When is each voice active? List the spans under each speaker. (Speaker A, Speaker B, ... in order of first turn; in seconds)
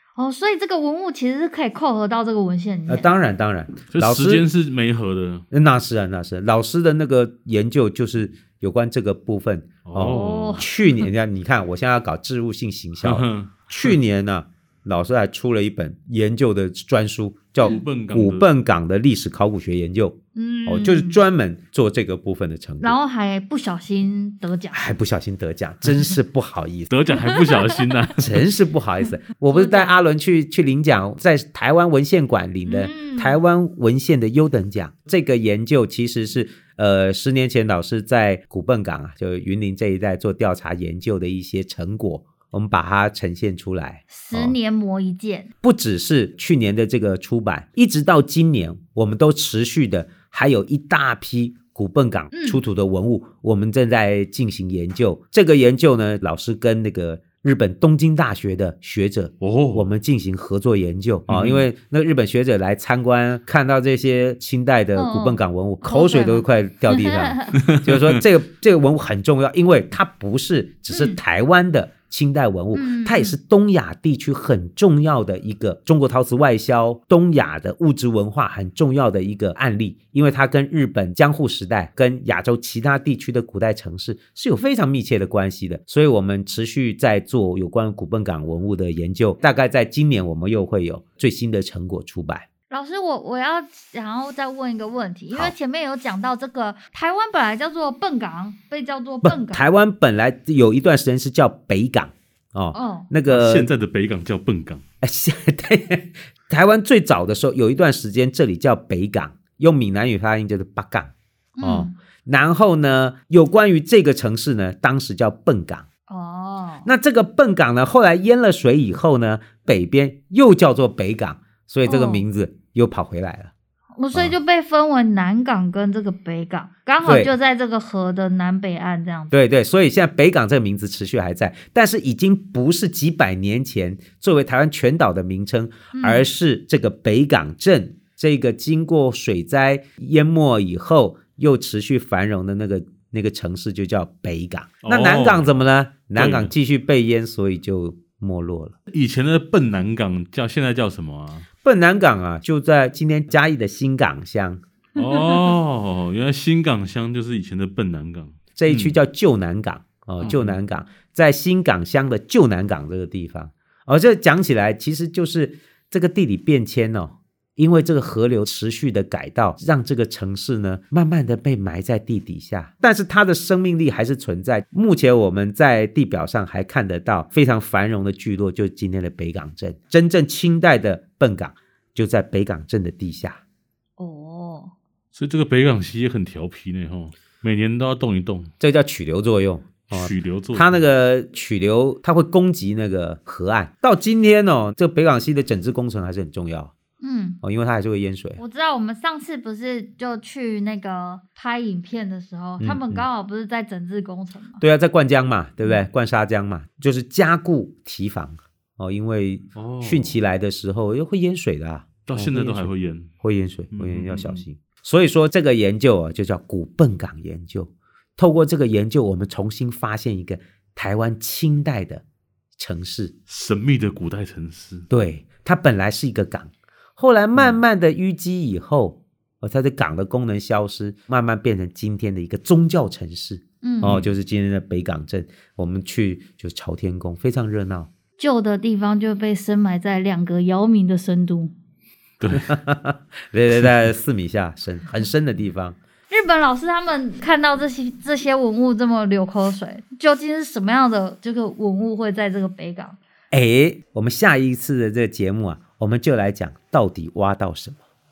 Speaker A: 0.2-3.1, 10.1-10.7, 20.4-21.2, 22.8-25.0, 27.3-27.8, 29.5-30.0, 32.7-33.4, 44.1-45.5, 52.3-52.6, 65.0-67.6, 70.9-71.2, 72.7-73.4, 92.7-99.6, 102.7-103.1, 111.6-111.9, 116.1-116.9, 121.8-122.2, 124.0-129.3, 135.9-136.3, 155.0-155.4, 184.0-184.7, 197.0-197.4, 198.4-204.6, 233.6-233.9, 238.2-241.5, 246.1-253.0
Speaker B: 2.9-4.5, 5.5-23.0, 24.7-26.9, 28.2-44.6, 45.6-92.5, 99.2-103.7, 105.0-115.9, 116.8-123.5, 127.0-127.3, 129.3-148.8, 151.6-154.6, 158.6-183.4, 188.6-196.7, 197.4-198.4, 202.6-203.1, 204.6-212.7, 213.2-222.0, 222.6-223.1, 224.9-237.9, 242.3-245.8, 253.3-257.8
Speaker C: 3.9-5.4, 9.8-10.7, 13.0-14.0, 17.6-18.5, 26.9-28.3, 59.4-59.9, 61.3-61.7, 67.6-68.2, 103.3-104.8, 144.8-145.5, 146.1-146.5, 148.9-151.4, 155.0-159.0, 160.2-160.6, 185.2-188.5, 189.9-190.8, 209.6-210.2, 212.1-213.1, 213.7-214.4, 223.3-224.9, 233.8-234.1, 242.2-242.5